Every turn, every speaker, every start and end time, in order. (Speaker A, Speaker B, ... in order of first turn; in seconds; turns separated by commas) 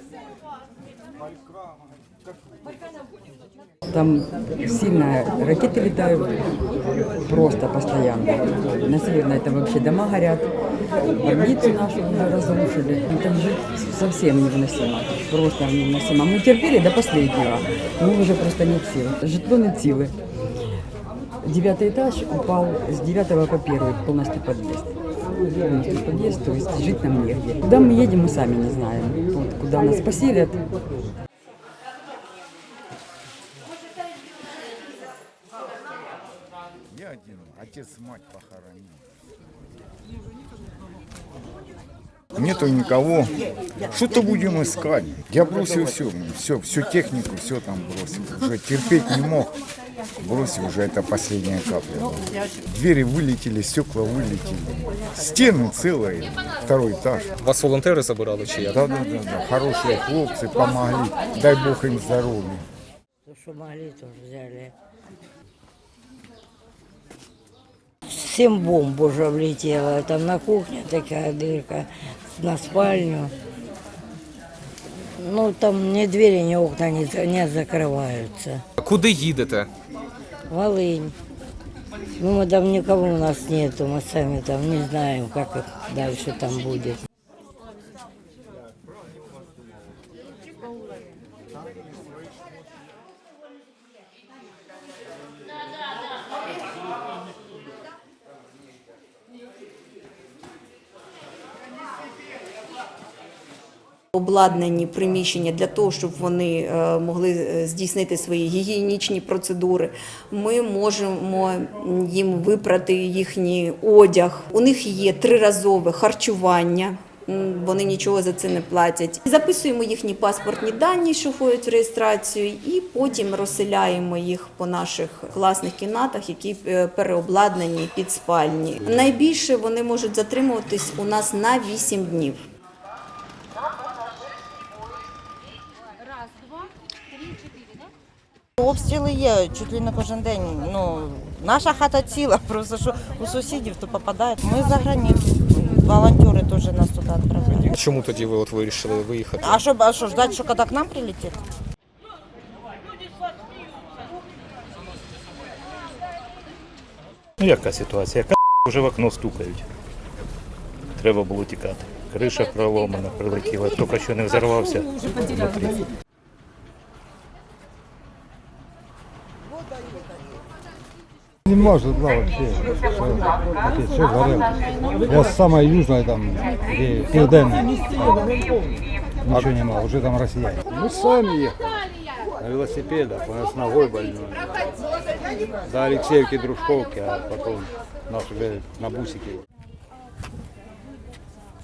Speaker A: 3.9-6.5, Speaker A: 7.2-10.5, Speaker A: 11.2-20.1, Speaker A: 21.4-24.9, Speaker A: 25.5-30.6, Speaker B: 36.9-39.0, Speaker B: 42.3-49.5, Speaker B: 50.2-57.2, Speaker C: 57.4-58.8, Speaker B: 58.5-62.6, Speaker D: 63.2-64.7, Speaker D: 68.0-73.3, Speaker D: 75.2-78.6, Speaker C: 78.8-79.7, Speaker D: 80.5-81.1, Speaker D: 82.2-87.0, Speaker E: 104.1-132.4, Speaker F: 138.6-147.7, Speaker C: 147.7-149.6, Speaker F: 149.4-151.4, Speaker G: 157.4-159.7, Speaker G: 161.0-165.8, Speaker H: 171.5-173.2, Speaker H: 173.7-174.4, Speaker H: 175.1-178.1, Speaker I: 179.3-179.6, Speaker H: 179.6-180.6, Speaker I: 180.7-181.8, Speaker I: 182.4-184.6, Speaker I: 185.7-189.4